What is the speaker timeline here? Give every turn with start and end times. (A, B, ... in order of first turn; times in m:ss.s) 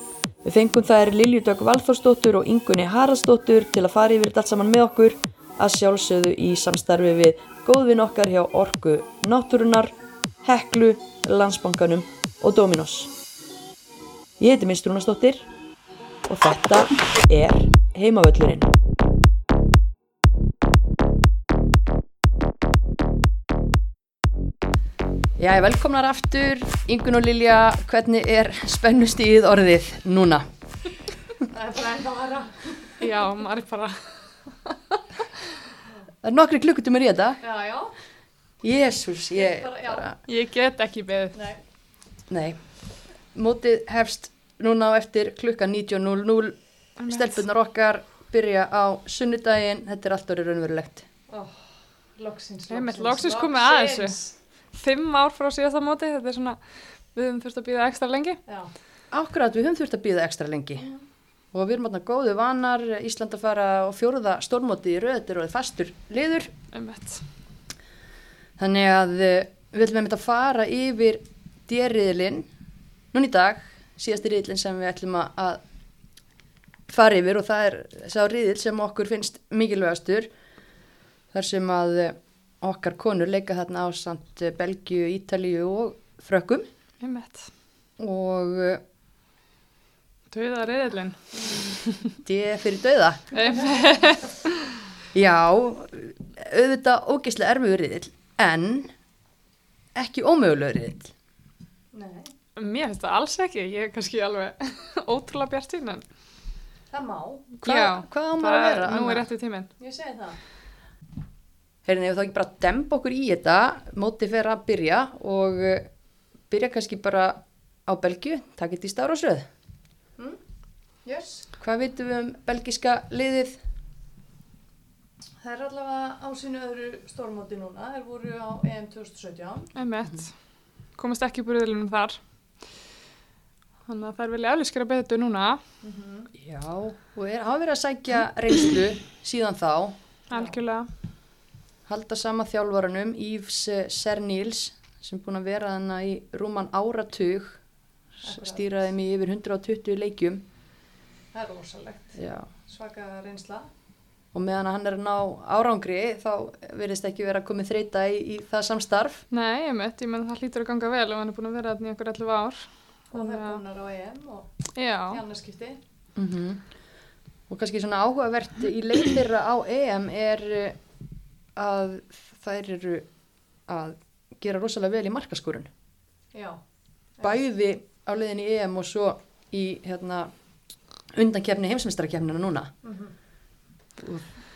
0:00.4-0:13.1 A
0:14.4-0:15.5 A
0:16.3-0:18.7 A
0:25.4-0:30.4 A
0:31.5-0:33.0 B
0:33.0-0:34.0 C
0:36.2-0:37.4 A
0:37.4-0:37.9 B
0:38.6-0:40.2 A
0:39.4-0:40.1 B
0:40.3-0:41.4 C
0:41.3-0:41.6 B
0:42.3-0:42.6 A
0:43.3-0:46.6 A
0:47.0-0:47.4 C
0:47.1-0:51.1 A
0:51.3-0:54.4 B
0:52.7-0:54.2 C
0:54.7-0:56.6 C
0:57.1-0:58.4 C
0:58.5-0:58.7 B
0:59.1-1:00.9 A
1:01.5-1:06.5 A
1:06.7-1:07.2 C
1:08.6-1:12.5 A
1:13.1-1:15.6 A
1:16.9-1:20.3 A
1:21.3-1:26.7 A
1:27.0-1:27.5 C
1:28.0-1:28.8 A
1:30.3-1:32.1 C
1:32.2-1:33.2 A
1:33.3-1:34.7 C
1:35.1-1:38.9 A
1:40.0-1:41.1 A
1:41.9-1:42.3 B
1:42.6-1:46.0 C
1:46.9-1:47.5 B
1:47.6-1:49.7 C
1:47.6-1:49.3 A
1:49.8-1:50.4 B
1:51.8-1:55.9 A
1:56.5-1:59.5 A
2:01.0-2:01.5 B
2:01.6-2:03.6 A
2:05.4-2:09.7 B
2:09.8-2:10.3 C
2:11.0-2:12.2 C
2:13.9-2:15.6 C
2:15.8-2:16.3 B
2:16.3-2:20.0 A
2:20.3-2:20.9 C
2:20.3-2:20.6 B
2:21.9-2:27.6 A
2:28.2-2:28.7 B
2:28.2-2:30.4 A
2:31.3-2:33.7 B
2:32.2-2:32.5 A
2:34.3-2:39.2 A
2:39.3-2:43.6 C
2:43.1-2:44.5 B
2:44.8-2:45.2 C
2:45.1-2:45.8 B
2:46.2-2:46.6 A
2:47.5-2:50.8 A
2:51.6-2:53.1 A
2:53.7-2:55.7 A
2:56.3-2:56.6 B
2:57.2-3:00.3 A
3:01.1-3:02.7 A
3:02.8-3:03.1 B
3:04.0-3:04.2 A